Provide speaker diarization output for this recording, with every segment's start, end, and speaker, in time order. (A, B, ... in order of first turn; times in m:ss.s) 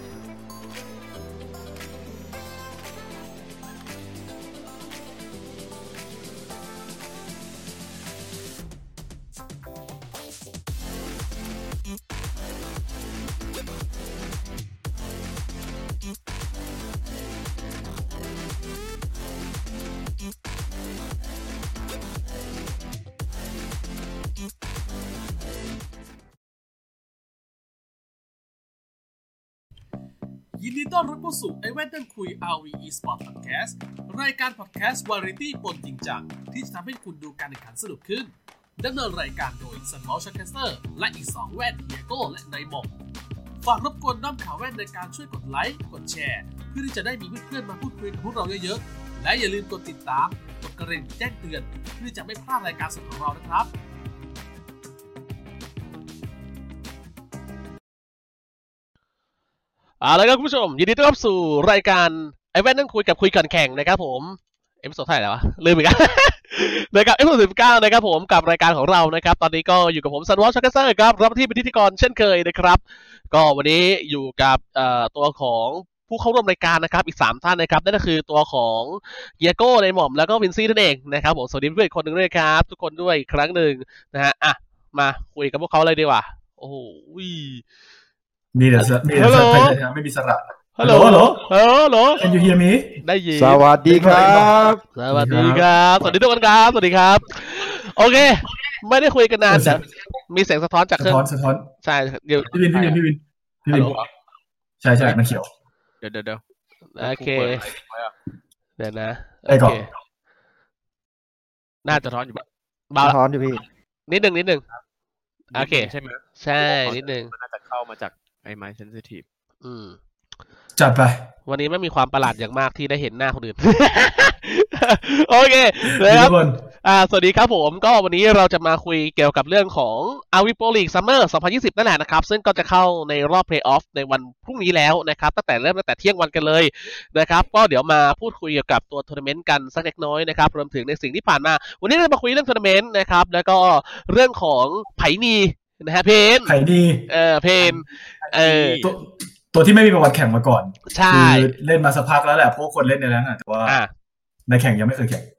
0:30.6-0:42.9 A
0:43.6-0:53.7 A
1:00.0-1:12.8 B
1:13.3-1:27.6 B
1:28.5-1:31.4 C
1:28.8-1:29.8 B
1:30.8-1:32.2 B
1:32.2-1:33.0 C
1:33.0-1:33.6 B
1:33.3-1:34.8 D
1:33.9-1:34.5 C
1:34.9-1:41.2 B
1:35.1-1:36.1 C
1:39.5-1:39.8 C
1:41.0-1:41.7 C
1:41.8-1:42.5 B
1:42.4-1:44.0 C
1:42.7-1:43.0 E
1:43.7-1:44.0 B
1:44.8-1:45.5 C
1:46.0-1:46.4 E
1:47.0-1:47.6 B
1:47.0-1:48.1 E
1:48.8-1:49.9 B
1:49.5-1:49.8 C
1:51.8-1:52.2 B
1:51.9-1:52.4 E
1:52.9-1:53.2 B
1:53.0-1:53.6 D
1:54.1-1:54.6 B
1:55.5-1:57.3 B
1:55.5-1:59.2 E
1:59.6-2:00.0 B
2:00.8-2:01.2 C
2:01.5-2:26.5 B
2:05.9-2:06.6 C
2:26.5-2:27.1 C
2:27.1-2:28.8 B
2:27.6-2:28.9 E
2:28.8-2:33.8 C
2:30.9-2:31.5 B
2:34.5-2:35.3 C